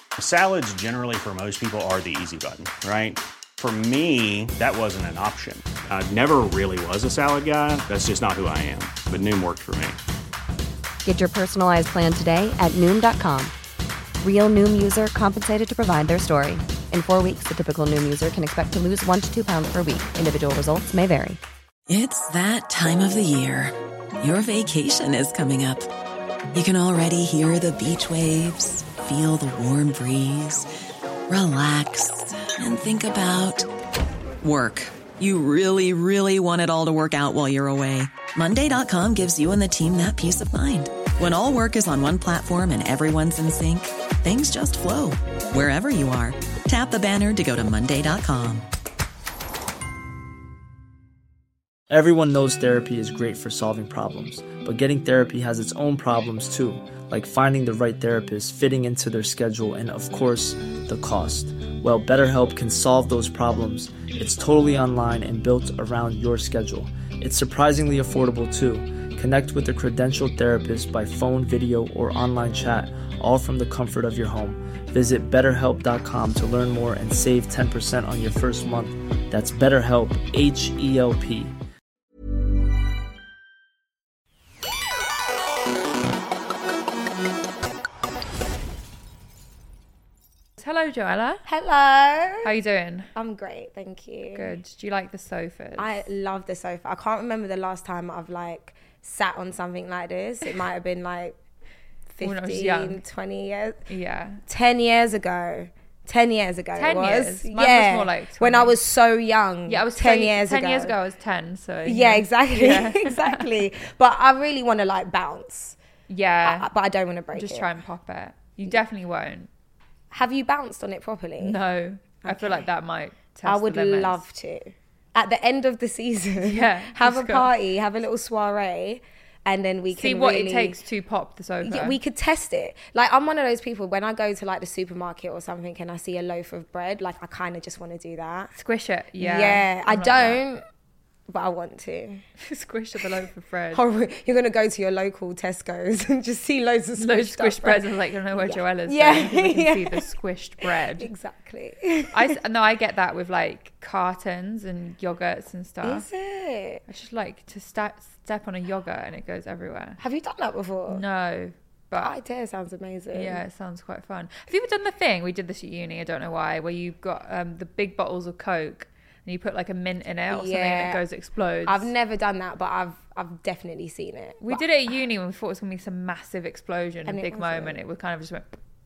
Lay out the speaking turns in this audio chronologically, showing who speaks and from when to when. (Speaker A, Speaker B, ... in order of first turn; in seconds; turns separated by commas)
Speaker A: 0.2-10.0, Speaker B: 11.0-13.5, Speaker B: 14.2-21.4, Speaker C: 21.9-25.9, Speaker C: 26.5-30.7, Speaker C: 31.3-33.7, Speaker C: 34.4-48.6, Speaker D: 51.9-81.5, Speaker E: 90.6-91.4, Speaker F: 91.5-92.5, Speaker E: 92.4-93.1, Speaker F: 93.1-94.5, Speaker E: 94.3-96.0, Speaker F: 95.8-101.4, Speaker F: 102.1-103.8, Speaker E: 102.2-103.0, Speaker E: 103.9-104.4, Speaker F: 104.5-110.9, Speaker E: 106.8-108.7, Speaker E: 109.7-113.5, Speaker F: 111.8-115.8, Speaker E: 116.1-116.7, Speaker F: 116.4-117.8, Speaker E: 117.3-119.5, Speaker F: 120.1-121.6, Speaker E: 121.4-124.2, Speaker F: 122.2-122.7, Speaker F: 123.4-130.8, Speaker E: 126.4-127.5, Speaker E: 129.9-132.0, Speaker F: 131.6-138.5, Speaker E: 138.6-140.4, Speaker F: 139.2-140.6, Speaker F: 141.3-142.2, Speaker E: 142.4-143.8, Speaker F: 143.7-147.8, Speaker E: 147.0-151.1, Speaker F: 148.4-150.0, Speaker F: 150.6-152.3, Speaker E: 152.1-156.1, Speaker F: 155.8-156.8, Speaker E: 156.9-160.0, Speaker F: 160.0-161.0, Speaker E: 160.9-162.2, Speaker F: 161.9-163.4, Speaker E: 163.1-171.9, Speaker F: 170.3-171.0, Speaker F: 171.7-174.7, Speaker E: 174.4-178.6, Speaker F: 177.1-177.8